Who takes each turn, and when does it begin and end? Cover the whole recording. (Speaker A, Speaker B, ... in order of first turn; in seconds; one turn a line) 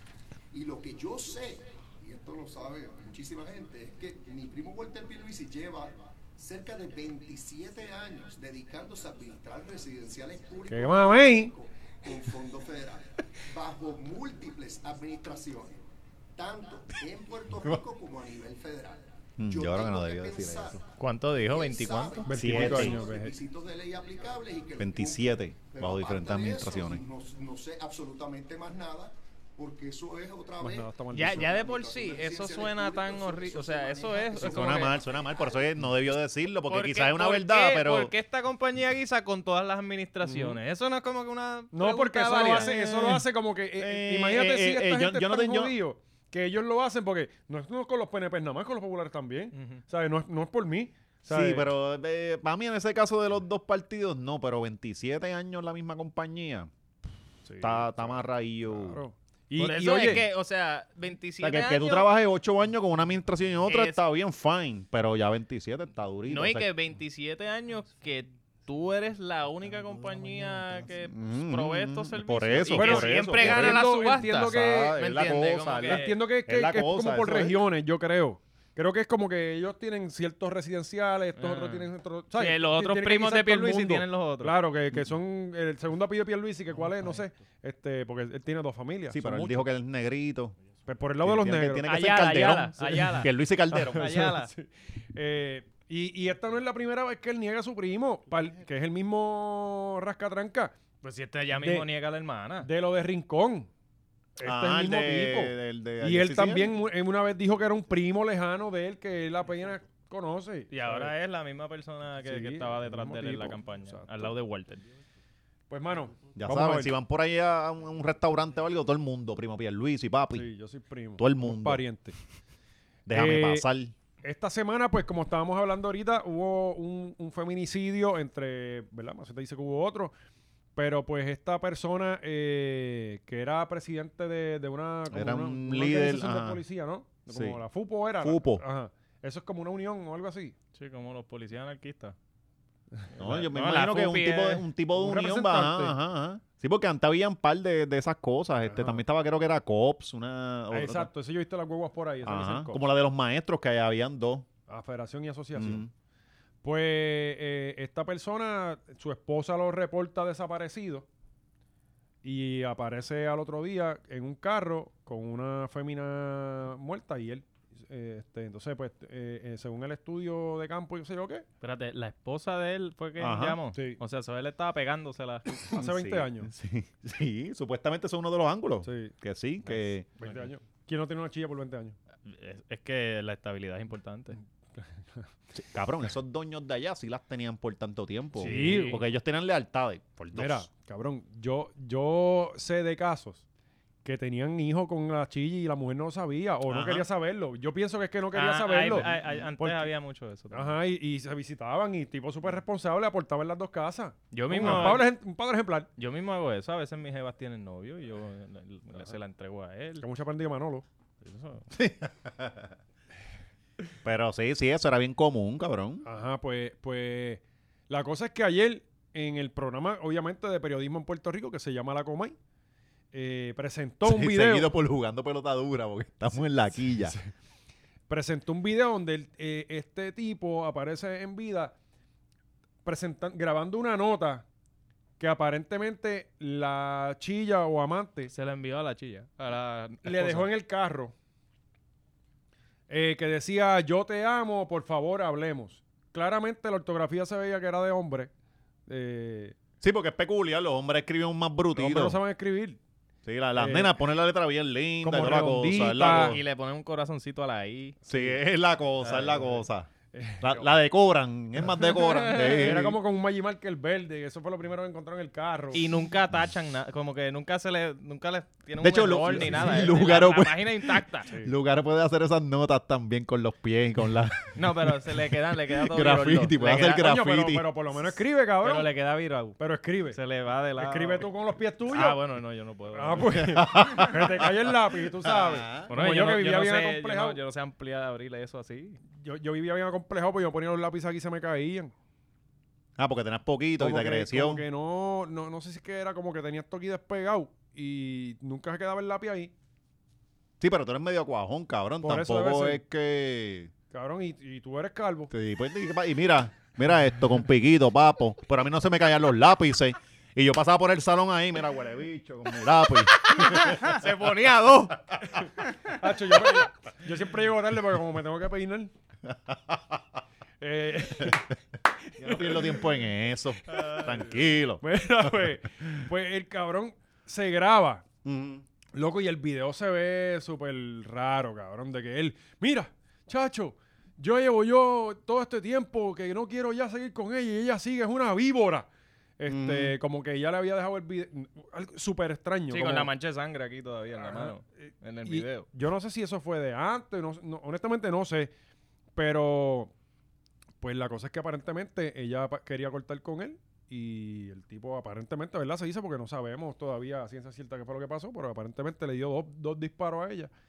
Speaker A: 0.5-35.7
Speaker B: 10.7-11.5
Speaker C: 19.4-20.8
Speaker D: 21.0-22.3
Speaker B: 22.3-23.3
Speaker C: 22.3-23.0
Speaker C: 24.8-27.0
Speaker B: 30.6-31.6
Speaker D: 31.1-35.0
Speaker C: 34.4-38.1
Speaker D: 36.7-43.2
Speaker B: 40.2-40.6
Speaker B: 41.7-51.7
Speaker C: 43.8-45.8
Speaker D: 49.5-49.8
Speaker C: 51.3-56.7
Speaker B: 57.5-60.3
Speaker C: 57.6-59.0
Speaker D: 59.6-62.1
Speaker C: 61.4-66.7
Speaker D: 63.7-64.0
Speaker D: 66.3-74.3
Speaker C: 71.0-77.6
Speaker B: 72.7-75.0
Speaker D: 74.9-76.2
Speaker B: 75.8-89.7
Speaker D: 81.4-84.6
Speaker C: 89.1-90.6
Speaker B: 90.9-91.9
Speaker C: 91.2-94.3
Speaker D: 91.8-93.3
Speaker B: 93.7-100.8
Speaker D: 93.8-94.5
Speaker D: 101.0-102.7
Speaker B: 101.6-101.9
Speaker B: 102.6-103.7
Speaker B: 104.4-111.1
Speaker C: 104.4-106.8
Speaker D: 110.7-114.8
Speaker B: 112.2-114.3
Speaker B: 115.7-117.0
Speaker C: 116.3-120.5
Speaker B: 120.3-122.2
Speaker C: 121.2-121.8
Speaker C: 123.1-124.0
Speaker B: 123.1-123.7
Speaker B: 124.2-130.1
Speaker B: 130.8-140.6
Speaker C: 135.1-136.6
Speaker C: 137.3-137.6
Speaker C: 138.2-138.6
Speaker D: 140.8-142.2
Speaker D: 143.2-144.7
Speaker C: 143.2-151.1
Speaker B: 144.9-146.0
Speaker B: 148.7-149.0
Speaker B: 150.7-152.8
Speaker C: 152.2-154.5
Speaker B: 154.7-155.8
Speaker C: 155.6-155.9
Speaker B: 156.6-161.1
Speaker B: 162.2-171.4
Speaker D: 171.6-175.7
Speaker C: 173.2-173.6
Speaker B: 173.7-174.0
Speaker C: 175.7-180.1
Speaker B: 175.7-176.5
Speaker B: 178.8-179.1
Speaker B: 179.7-182.0
Speaker D: 182.2-184.4
Speaker B: 184.8-185.3
Speaker C: 185.5-190.7
Speaker B: 188.4-189.0
Speaker D: 188.4-189.0
Speaker B: 190.3-193.4
Speaker B: 194.1-199.9
Speaker C: 196.7-197.1
Speaker D: 198.3-200.8
Speaker B: 200.5-205.9
Speaker D: 204.3-205.1
Speaker C: 204.6-205.0
Speaker D: 206.0-210.1
Speaker B: 210.0-210.8
Speaker D: 211.2-211.7
Speaker C: 211.7-212.7
Speaker C: 214.0-216.1
Speaker B: 216.0-222.4
Speaker B: 223.1-224.7
Speaker C: 224.0-227.2
Speaker B: 226.9-227.2
Speaker B: 228.1-231.8
Speaker B: 232.8-234.4
Speaker B: 235.2-238.3
Speaker D: 238.3-240.5
Speaker B: 240.0-241.1
Speaker B: 242.9-248.3
Speaker B: 248.9-249.6
Speaker C: 249.8-252.2
Speaker B: 251.8-252.8
Speaker C: 253.2-256.4
Speaker B: 253.6-253.9
Speaker B: 255.0-256.4
Speaker D: 256.0-258.0
Speaker B: 258.1-258.4
Speaker C: 258.1-263.0
Speaker D: 259.0-259.5
Speaker B: 260.1-260.7
Speaker D: 262.0-262.8
Speaker B: 262.6-265.8
Speaker D: 265.7-271.3
Speaker C: 268.8-274.6
Speaker B: 269.3-270.0
Speaker D: 274.6-277.1
Speaker C: 275.8-277.7
Speaker B: 277.0-278.9
Speaker D: 278.6-279.6
Speaker B: 279.6-280.2
Speaker D: 280.1-281.3
Speaker B: 280.8-282.2
Speaker D: 281.9-283.4
Speaker B: 282.9-287.4
Speaker C: 283.4-285.9
Speaker D: 285.9-289.0
Speaker B: 289.1-291.9
Speaker C: 293.0-294.6
Speaker B: 293.8-299.5
Speaker C: 300.6-303.7
Speaker B: 302.0-302.8
Speaker B: 303.9-305.3
Speaker C: 305.3-313.8
Speaker D: 313.3-315.0
Speaker B: 315.9-318.9
Speaker C: 319.3-320.0
Speaker B: 320.6-321.5
Speaker C: 322.2-324.8
Speaker B: 322.2-322.9
Speaker D: 323.9-324.1
Speaker B: 324.8-328.0
Speaker C: 328.2-328.6
Speaker B: 328.9-338.9
Speaker B: 339.4-343.1
Speaker C: 339.5-339.9
Speaker D: 342.7-345.7
Speaker B: 344.2-348.5
Speaker B: 349.2-349.9
Speaker B: 350.8-360.5